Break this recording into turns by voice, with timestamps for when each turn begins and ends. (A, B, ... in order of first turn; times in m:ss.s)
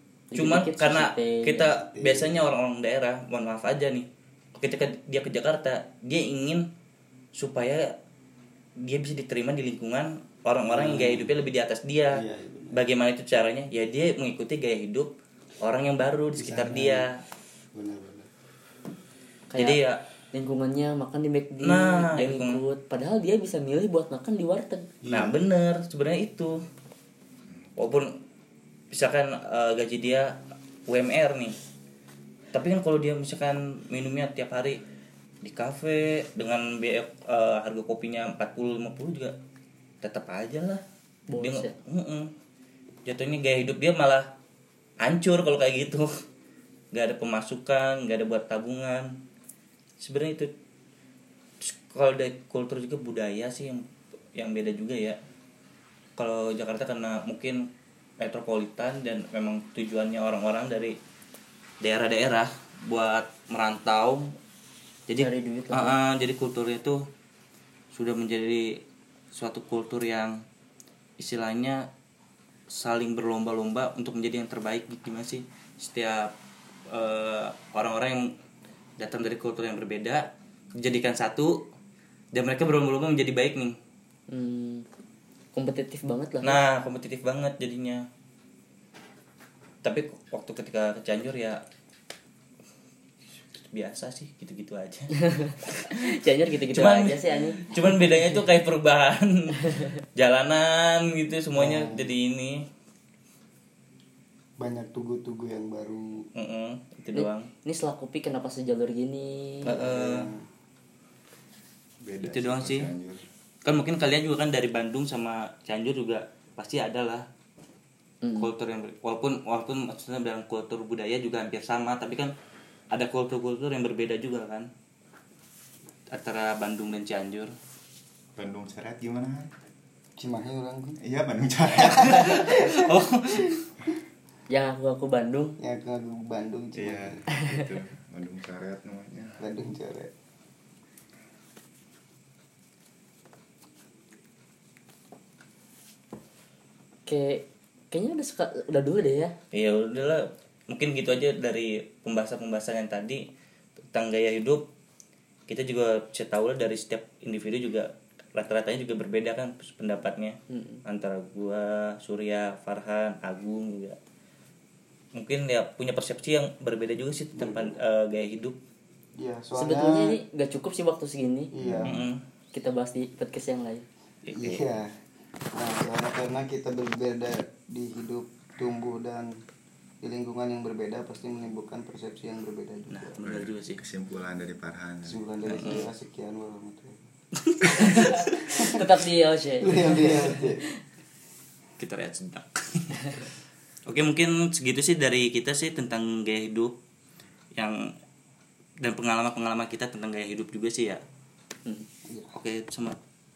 0:00.3-0:01.7 A
0:00.4-0:06.7 B
0:01.7-0:02.5 C
0:07.3-0:08.0 B
0:08.8-0:17.2 B
0:10.7-0:11.3 C
0:12.1-0:12.8 C
0:16.4-0:17.1 C
0:17.7-0:18.3 C
0:19.5-0:19.8 A
0:19.6-0:20.0 B
0:20.3-0:24.9 A
0:21.6-0:22.6 B
0:25.0-0:25.4 C
0:25.1-0:26.6 B
0:27.8-0:28.2 B
0:28.9-0:31.6 B
0:32.5-0:34.8 B
0:35.4-0:39.4 B
0:40.0-0:40.8 B
0:41.3-0:41.8 A
0:41.4-0:42.3 B
0:43.0-0:44.3 B
0:45.0-0:46.1 B
0:46.9-0:49.2 B
0:50.0-0:50.5 B
0:51.6-0:55.2 B
0:56.2-0:57.7 B
0:58.2-1:01.0 B
1:01.8-1:04.4 B
1:05.1-1:07.1 B
1:05.2-1:06.0 A
1:07.9-1:10.4 B
1:11.2-1:11.9 B
1:12.7-1:16.3 B
1:16.9-1:18.3 B
1:19.0-1:21.6 B
1:22.3-1:23.8 B
1:24.3-1:24.9 A
1:25.5-1:26.6 A
1:26.4-1:28.1 B
1:29.8-1:31.6 B
1:33.5-1:35.2 B
1:35.2-1:37.8 A
1:35.7-1:36.1 B
1:36.7-1:42.7 B
1:41.6-1:42.1 C
1:44.6-1:46.3 C
1:46.4-1:47.5 B
1:47.1-1:49.8 A
1:49.6-1:50.3 B
1:49.7-1:50.4 C
1:52.0-1:53.2 D
1:52.3-1:52.9 B
1:53.6-1:57.3 B
1:58.2-1:58.5 A
1:58.4-2:02.4 B
2:02.9-2:04.7 B
2:06.1-2:07.6 B
2:08.4-2:09.5 D
2:10.2-2:11.0 C
2:11.0-2:12.7 D
2:11.8-2:12.8 C
2:12.0-2:13.6 B
2:14.5-2:15.6 A
2:15.6-2:17.2 C
2:16.8-2:19.4 D
2:17.4-2:17.7 A
2:19.4-2:20.1 C
2:27.1-2:29.3 A
2:29.5-2:33.2 B
2:33.9-2:34.7 B
2:35.5-2:44.0 B
2:40.5-2:40.8 A
2:45.2-2:48.6 B
2:47.4-2:47.7 C
2:49.2-2:50.2 C
2:49.6-2:51.5 A
2:51.5-2:52.0 C
2:51.6-2:51.9 D
2:51.8-2:52.2 B
2:52.5-2:53.9 A
2:54.2-2:54.7 B
2:54.3-2:54.9 C
2:55.5-2:59.4 C
3:00.0-3:03.2 C
3:02.9-3:03.8 B
3:03.2-3:05.2 D
3:05.1-3:07.0 C
3:05.4-3:05.9 B
3:07.4-3:08.4 B
3:07.7-3:10.7 A
3:08.4-3:08.9 C
3:09.6-3:10.6 C
3:11.8-3:13.2 B
3:13.9-3:16.8 B
3:17.6-3:17.9 B
3:18.8-3:21.0 B
3:22.1-3:22.3 C
3:22.3-3:23.0 B